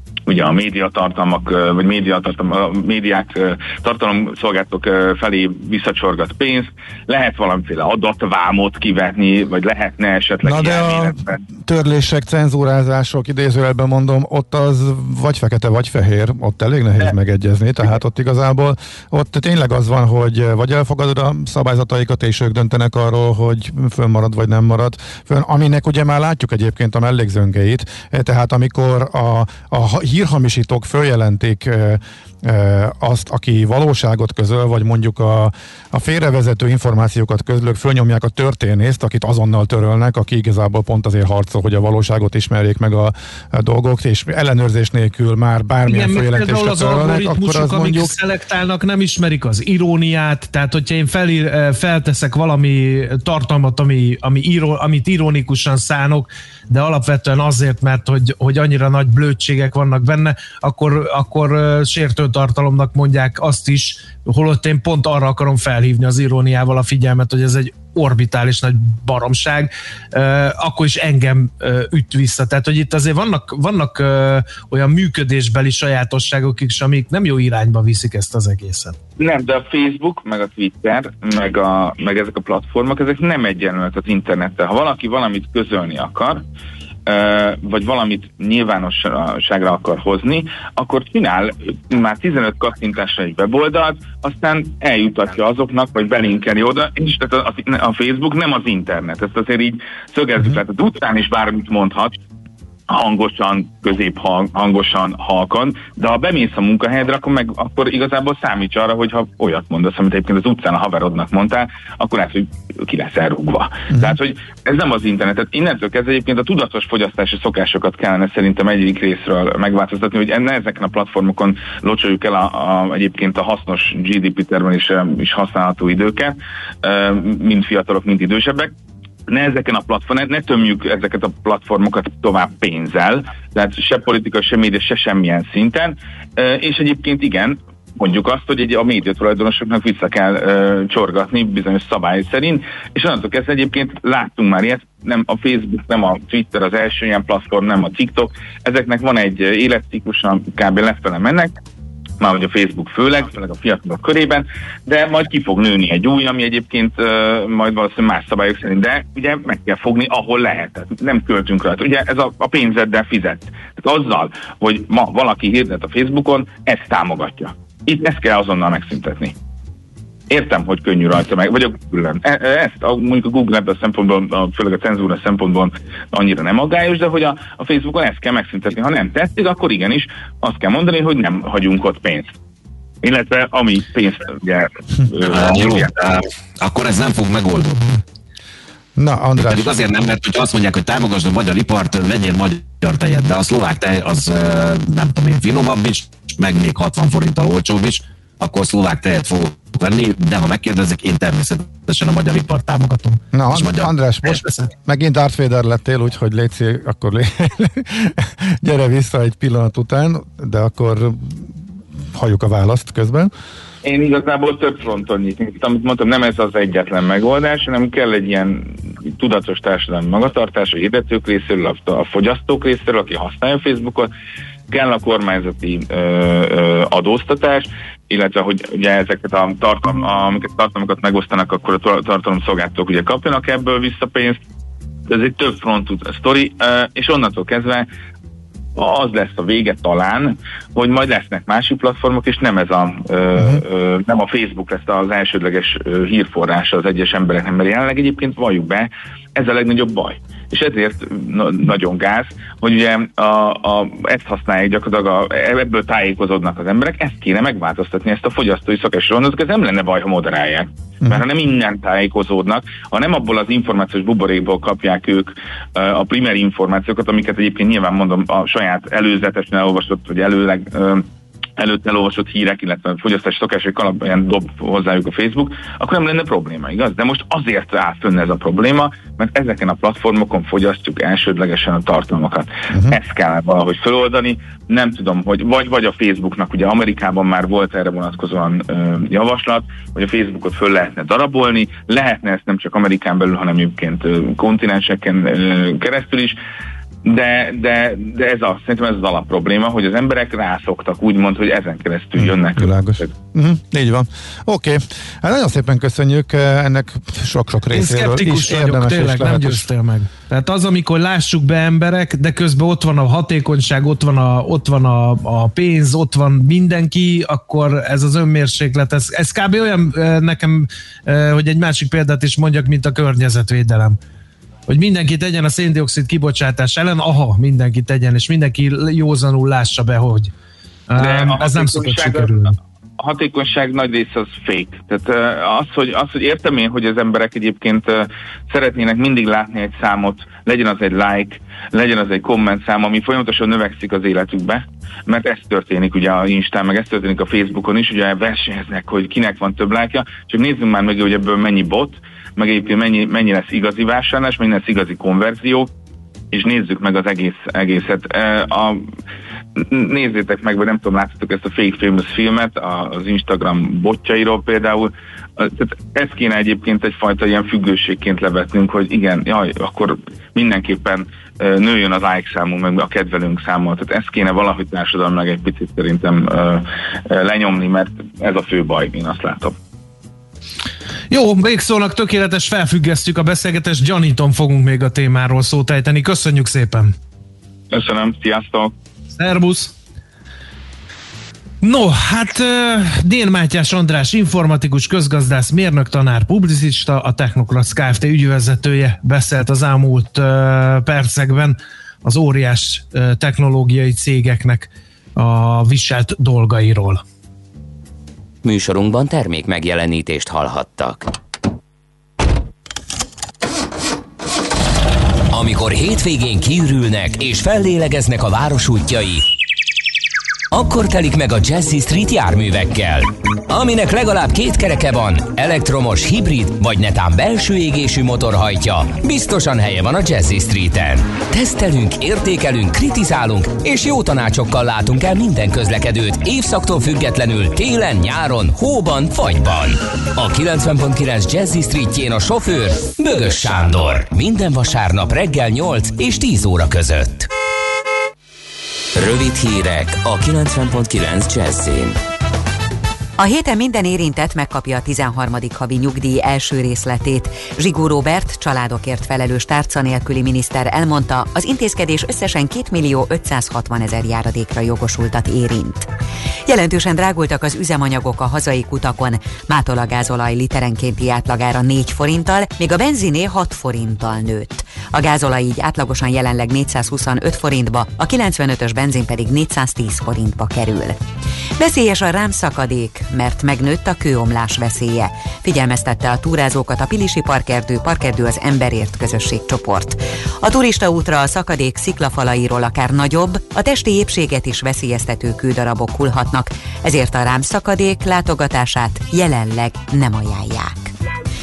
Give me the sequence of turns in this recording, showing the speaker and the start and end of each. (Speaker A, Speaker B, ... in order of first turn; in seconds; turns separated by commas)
Speaker A: 0.3-11.4, Speaker B: 10.4-48.1, Speaker C: 45.9-79.0, Speaker A: 79.2-86.4, Speaker A: 87.1-102.2, Speaker A: 102.9-128.7, Speaker A: 129.3-151.5, Speaker A: 152.2-169.3, Speaker A: 170.3-182.3, Speaker A: 183.0-185.9, Speaker D: 185.3-187.9, Speaker B: 189.0-189.7, Speaker D: 189.4-204.6, Speaker B: 203.3-211.5, Speaker B: 212.1-213.3, Speaker A: 213.8-224.1, Speaker A: 224.7-234.4, Speaker A: 235.1-237.9, Speaker A: 238.7-271.1, Speaker B: 243.4-243.6, Speaker A: 271.6-296.4, Speaker A: 297.0-303.1, Speaker B: 302.2-309.7, Speaker C: 307.7-324.0, Speaker C: 324.7-330.3, Speaker C: 330.9-332.6, Speaker A: 331.0-332.4, Speaker A: 333.0-355.7, Speaker A: 356.3-358.9, Speaker A: 359.6-379.6, Speaker C: 381.1-386.9, Speaker A: 387.7-388.7, Speaker C: 389.1-389.7, Speaker C: 391.6-407.0, Speaker E: 408.4-411.1, Speaker E: 415.3-419.2, Speaker E: 420.5-447.3, Speaker E: 448.9-452.0, Speaker F: 453.2-465.9, Speaker F: 466.4-481.0, Speaker F: 481.6-500.9